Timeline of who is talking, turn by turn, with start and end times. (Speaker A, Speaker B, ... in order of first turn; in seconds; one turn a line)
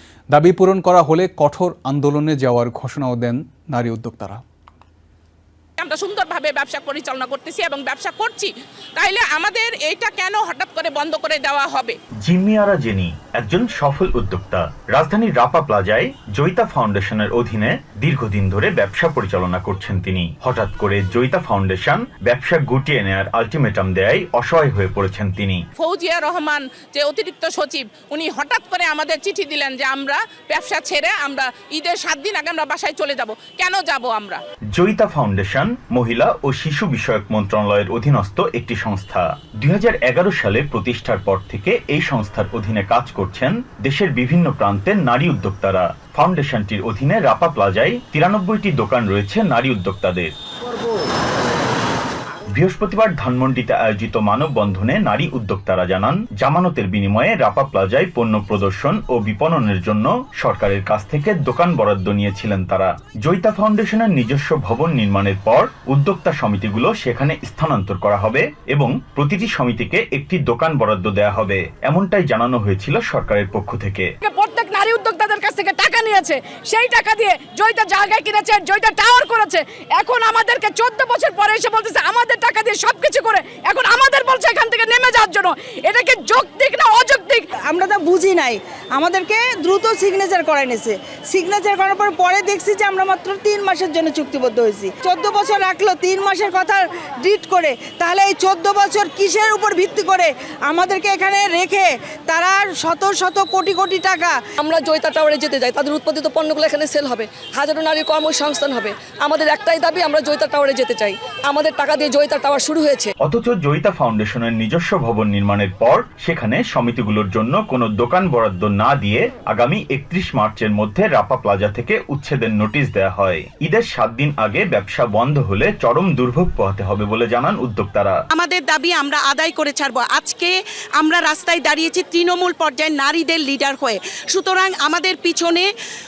Speaker A: 0.3-4.4
Speaker B: 5.8-12.0
Speaker C: 12.2-25.6
Speaker B: 25.8-34.4
Speaker C: 34.7-50.3
Speaker C: 52.5-74.1
Speaker D: 74.3-87.4
Speaker E: 87.6-104.3
Speaker F: 104.6-113.1
Speaker C: 113.2-128.2
Speaker G: 128.3-135.7